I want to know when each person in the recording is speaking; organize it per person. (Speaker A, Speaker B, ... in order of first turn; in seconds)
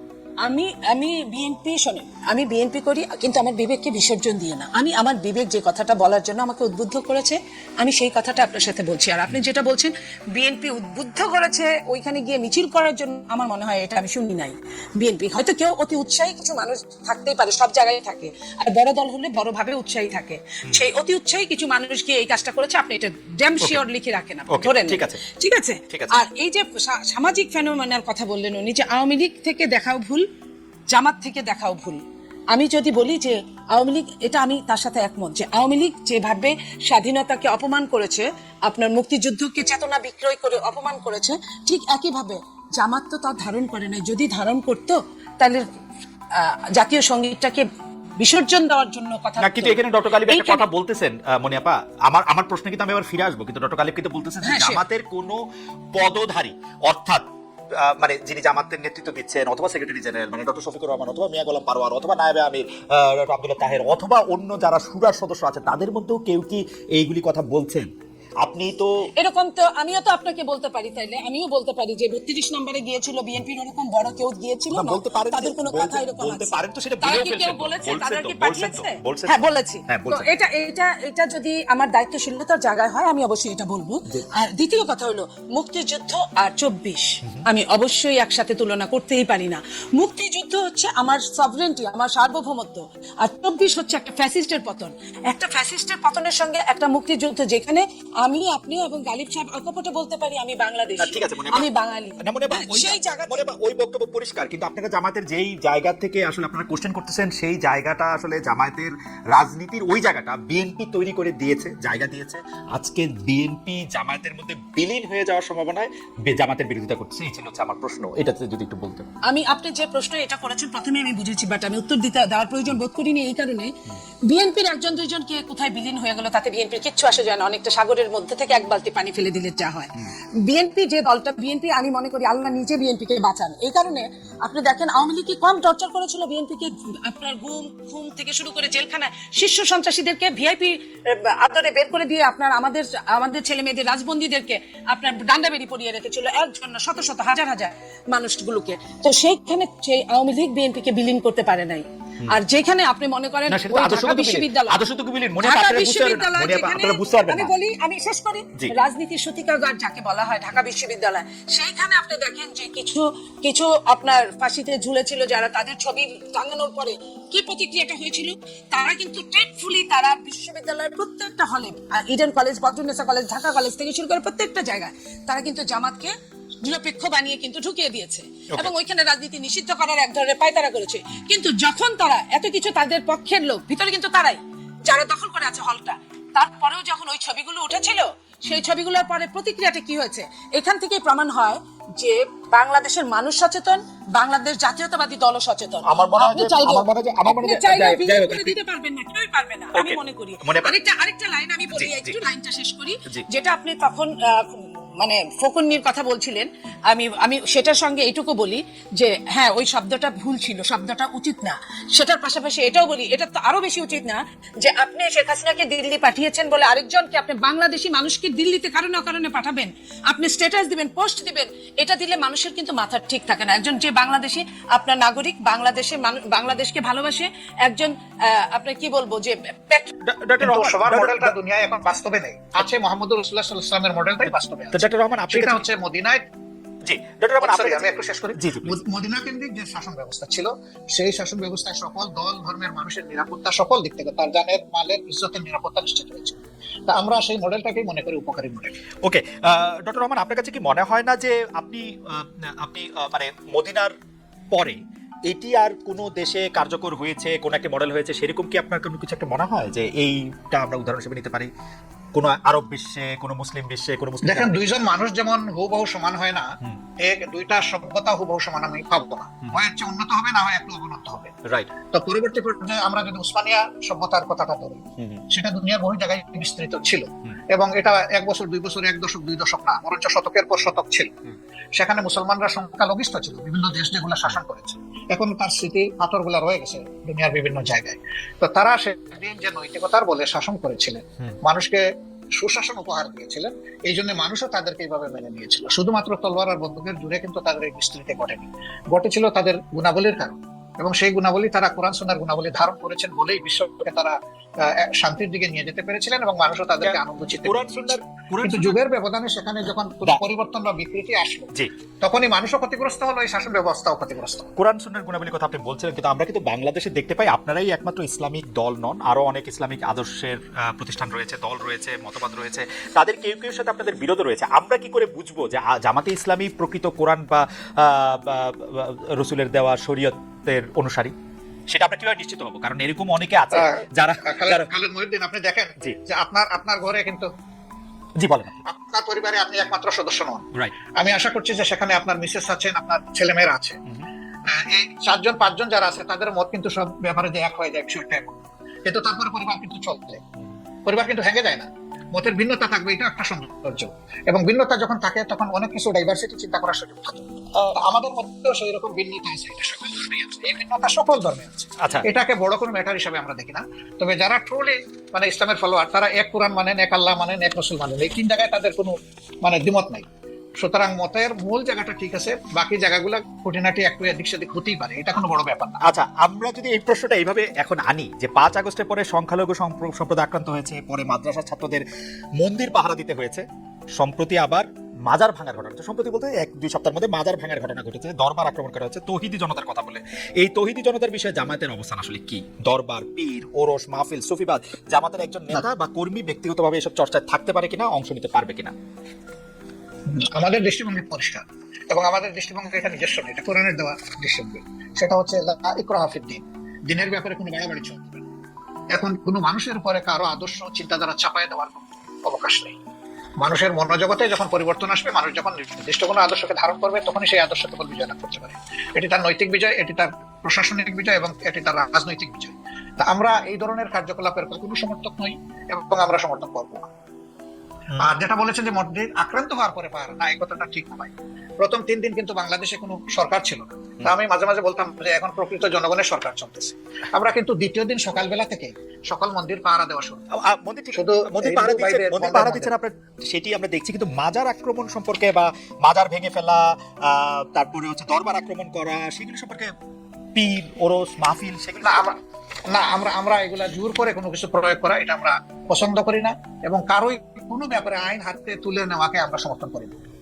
Speaker A: 0.4-30.2, 30.9-45.7, 46.3-47.6, 48.2-50.6, 54.5-54.8, 69.2-103.5, 119.3-123.7, 124.3-154.8, 155.4-229.9
Speaker B: 24.5-25.2, 25.9-26.2, 49.4-55.4, 55.9-57.2, 57.8-67.9, 68.4-69.1, 74.7-80.3, 101.0-101.7, 102.2-119.1, 153.5-157.5, 195.8-198.5, 199.7-200.8, 201.7-202.2, 230.1-231.4, 234.7-235.7, 236.8-238.8, 249.0-253.9, 254.5-261.5, 262.1-264.6, 275.0-275.2, 306.8-308.8, 314.6-331.1, 331.7-334.7, 338.2-338.6, 375.8-381.9, 382.4-398.7, 440.4-449.7, 450.4-452.1
Speaker C: 230.4-236.2, 237.4-248.7, 264.2-266.5, 267.0-271.3, 271.9-281.1, 281.8-291.8, 292.4-311.5, 312.0-314.5, 333.5-337.3, 338.7-340.5, 341.0-343.8, 344.5-350.2, 350.9-370.1, 370.6-375.8, 400.1-408.2, 408.9-412.8, 413.4-426.9, 428.0-440.2, 440.9-442.7, 451.8-452.1, 452.7-460.0